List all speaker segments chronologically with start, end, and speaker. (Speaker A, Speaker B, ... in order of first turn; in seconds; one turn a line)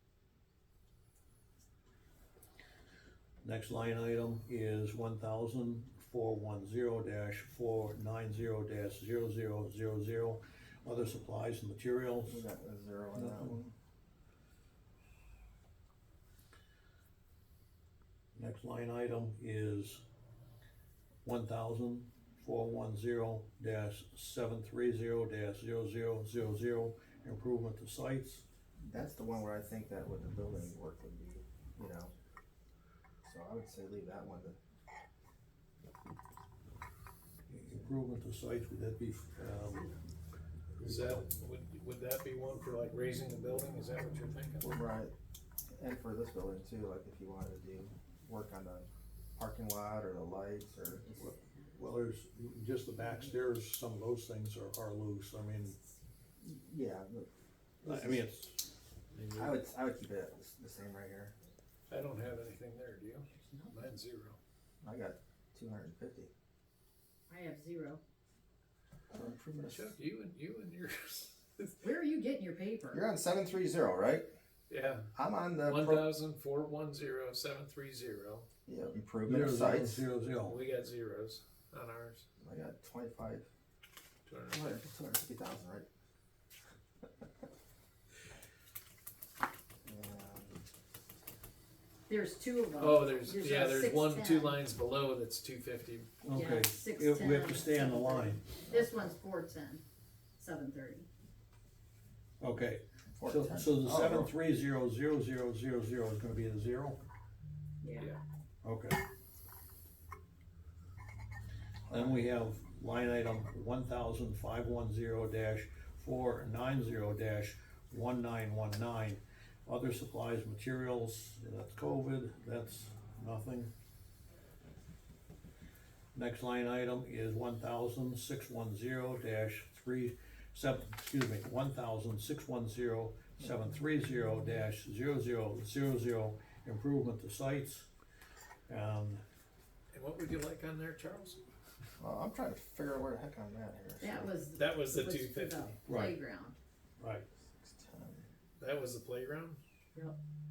Speaker A: 3.4-12.4
Speaker B: 12.2-13.7
Speaker A: 13.2-13.6
Speaker A: 18.3-20.0
Speaker A: 21.2-28.4
Speaker B: 28.8-32.1
Speaker B: 33.2-34.6
Speaker A: 37.5-39.9
Speaker C: 40.8-44.8
Speaker A: 40.8-41.2
Speaker B: 44.6-45.1
Speaker B: 45.7-51.2
Speaker A: 51.1-55.8
Speaker B: 56.4-57.3
Speaker B: 57.8-58.3
Speaker A: 57.8-58.6
Speaker A: 59.1-59.5
Speaker B: 59.3-61.4
Speaker C: 61.9-64.4
Speaker B: 64.8-66.3
Speaker D: 67.3-68.0
Speaker B: 69.1-69.9
Speaker C: 69.7-71.9
Speaker D: 71.8-73.0
Speaker B: 72.9-74.3
Speaker C: 74.7-78.5
Speaker B: 75.2-76.2
Speaker B: 78.7-80.1
Speaker A: 79.2-80.6
Speaker C: 80.4-82.2
Speaker B: 82.4-83.5
Speaker C: 84.2-84.9
Speaker B: 84.5-85.9
Speaker B: 89.8-90.6
Speaker D: 92.1-94.6
Speaker C: 92.8-96.2
Speaker A: 96.2-98.5
Speaker D: 96.3-99.8
Speaker D: 100.4-101.1
Speaker A: 102.4-107.0
Speaker B: 103.2-104.3
Speaker D: 107.8-108.1
Speaker A: 108.6-109.0
Speaker B: 111.9-112.3
Speaker A: 111.9-123.7
Speaker A: 126.1-137.9
Speaker A: 138.7-139.2
Speaker C: 139.9-141.4
Speaker B: 142.0-144.4
Speaker D: 144.0-146.6
Speaker C: 144.6-145.8
Speaker A: 145.9-146.1
Speaker A: 147.0-147.3
Speaker B: 147.4-148.3
Speaker C: 148.6-149.6